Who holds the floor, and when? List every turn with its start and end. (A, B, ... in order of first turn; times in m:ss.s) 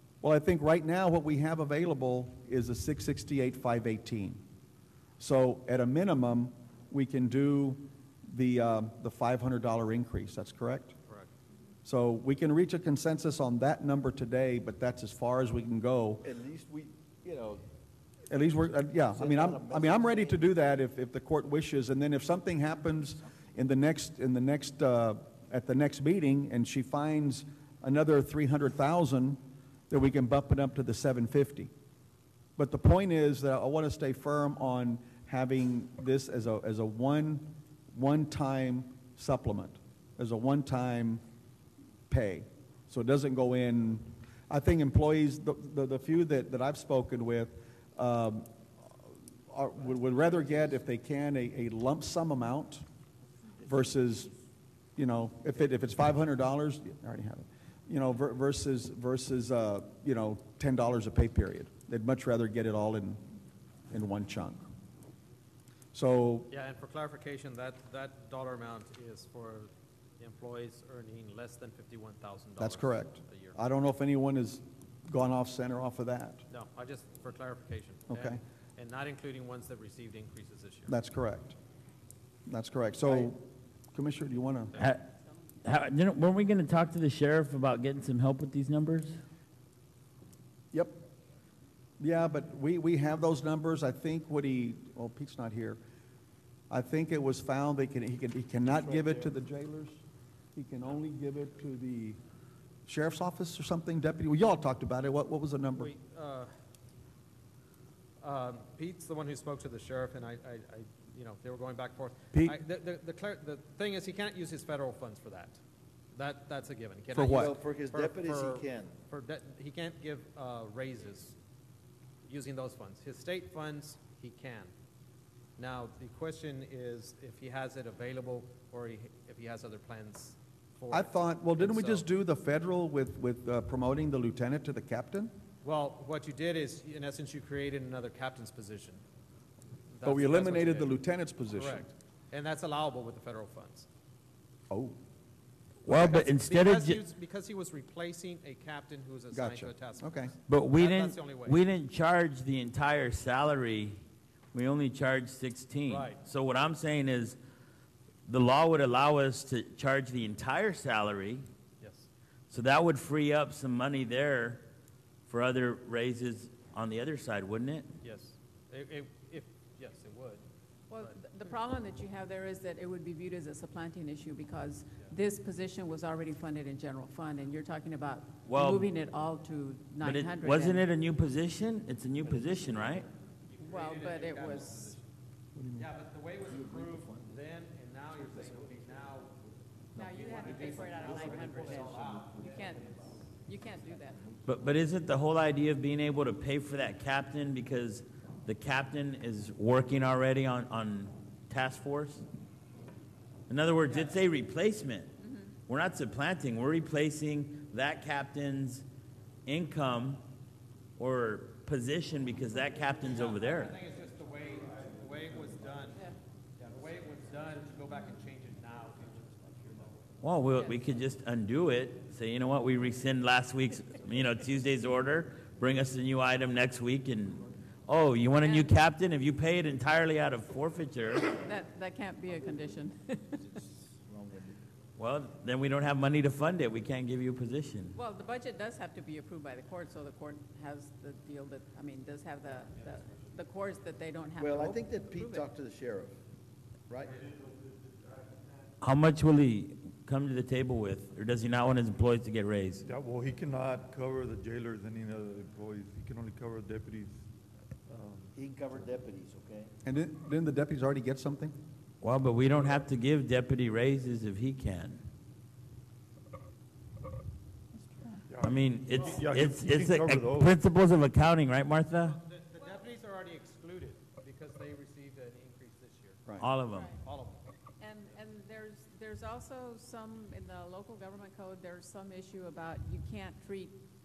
0:00.2-0:04.4 A
0:05.2-0:11.0 A
0:11.8-0:16.3 A
0:16.2-0:17.6 B
0:18.3-0:31.7 A
0:19.1-0:20.5 B
0:32.6-0:41.2 A
0:42.1-0:48.5 A
0:49.5-0:52.8 A
0:53.6-0:54.3 A
0:55.0-1:03.2 A
1:03.9-1:04.7 A
1:05.9-1:06.5 A
1:06.5-1:13.6 C
1:12.6-1:16.4 A
1:16.5-1:20.9 C
1:18.1-1:18.4 A
1:20.9-1:21.6 A
1:22.5-1:23.4 A
1:23.9-1:24.8 A
1:24.8-1:25.1 D
1:25.6-1:29.2 D
1:30.7-1:31.0 A
1:32.0-1:35.8 A
1:36.7-1:40.0 A
1:38.7-1:39.4 B
1:40.5-1:42.2 A
1:42.9-1:45.9 A
1:45.7-1:46.5 C
1:48.2-1:55.6 C
1:52.3-1:52.6 A
1:56.1-2:01.4 C
1:57.1-1:57.5 A
1:57.3-1:59.0 B
2:02.2-2:04.7 C
2:05.6-2:12.1 C
2:10.9-2:15.3 A
2:15.6-2:19.0 C
2:19.9-2:23.9 C
2:20.0-2:21.9 A
2:24.7-2:25.0 A
2:25.8-2:27.0 D
2:25.8-2:26.2 A
2:25.9-2:31.6 C
2:29.3-2:30.3 A
2:30.5-2:34.0 D
2:34.5-2:37.4 D
2:35.9-2:36.2 C
2:38.3-2:41.4 D
2:41.8-2:42.1 C
2:42.5-2:44.6 D
2:45.3-2:47.9 D
2:48.0-2:50.4 C
2:50.9-3:00.9 E
2:58.4-2:58.9 D
3:00.0-3:03.1 D
3:02.2-3:03.0 B
3:03.5-3:05.0 C
3:03.6-3:05.0 E
3:05.6-3:05.9 A
3:05.8-3:09.4 C
3:06.4-3:07.4 B
3:08.2-3:09.3 B
3:09.9-3:12.8 B
3:09.9-3:13.2 C
3:10.0-3:11.8 E
3:12.4-3:14.3 E
3:13.8-3:14.8 B
3:14.4-3:22.2 D
3:23.5-3:28.8 D
3:23.9-3:24.2 C
3:25.2-3:25.5 E
3:29.4-3:30.2 D
3:31.0-3:33.7 D
3:33.0-3:36.0 C
3:36.6-3:39.9 C
3:40.2-3:51.4 D
3:40.5-3:40.9 E
3:48.3-3:48.8 E
3:51.3-3:53.4 E
3:53.4-3:54.6 B
3:55.0-3:58.0 D
3:57.9-4:05.5 E
4:04.4-4:06.2 B
4:06.9-4:07.1 B
4:08.8-4:12.8 D
4:12.8-4:17.2 F
4:17.9-4:18.3 F
4:18.3-4:19.7 B
4:19.8-4:21.6 A
4:22.0-4:25.0 D
4:28.3-4:30.6 F
4:28.4-4:32.2 D
4:31.9-4:36.3 C
4:36.4-4:36.9 D
4:36.7-4:37.0 E
4:36.9-4:37.5 C
4:37.8-4:43.8 E